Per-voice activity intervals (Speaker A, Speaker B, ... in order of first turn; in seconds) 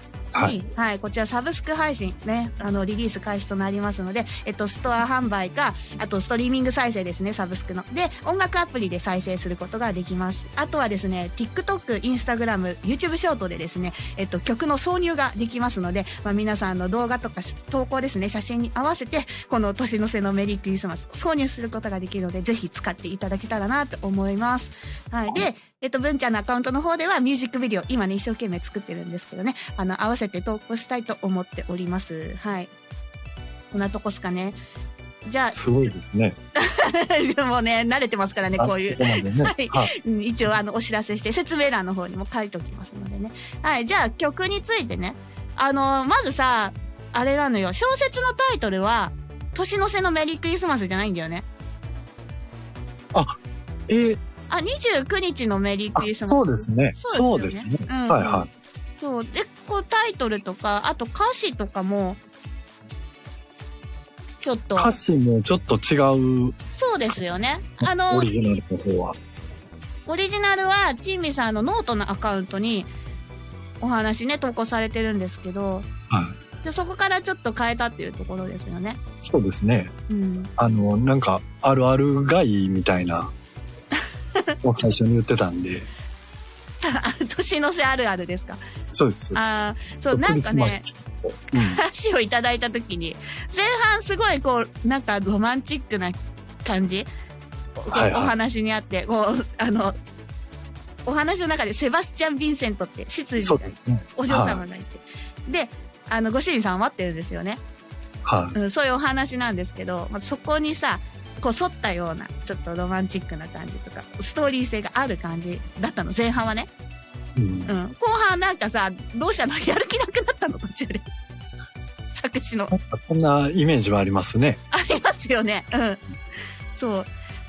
Speaker A: 0.4-32.7, 33.7-34.6, 35.3-35.6, 36.6-51.5, 54.5-58.5, 59.0-62.2, 64.4-65.0, 66.7-68.3, 70.1-72.9, 73.8-75.9, 76.6-79.0, 80.1-80.5, 86.8-88.6, 89.3-90.9, 91.5-97.1, 97.8-100.0, 101.1-107.6, 108.5-116.7, 117.7-121.0, 122.1-122.7, 124.7-126.0, 126.8-127.1
Speaker B: 35.5-36.4, 38.6-39.9, 53.9-54.2, 56.0-58.5, 64.8-66.6, 67.8-69.2, 76.1-76.4, 79.2-79.9, 80.6-83.3, 84.6-85.9, 88.9-89.4, 90.1-91.8, 97.9-98.3, 103.4-104.6, 108.2-108.5, 117.4-117.7, 122.7-124.6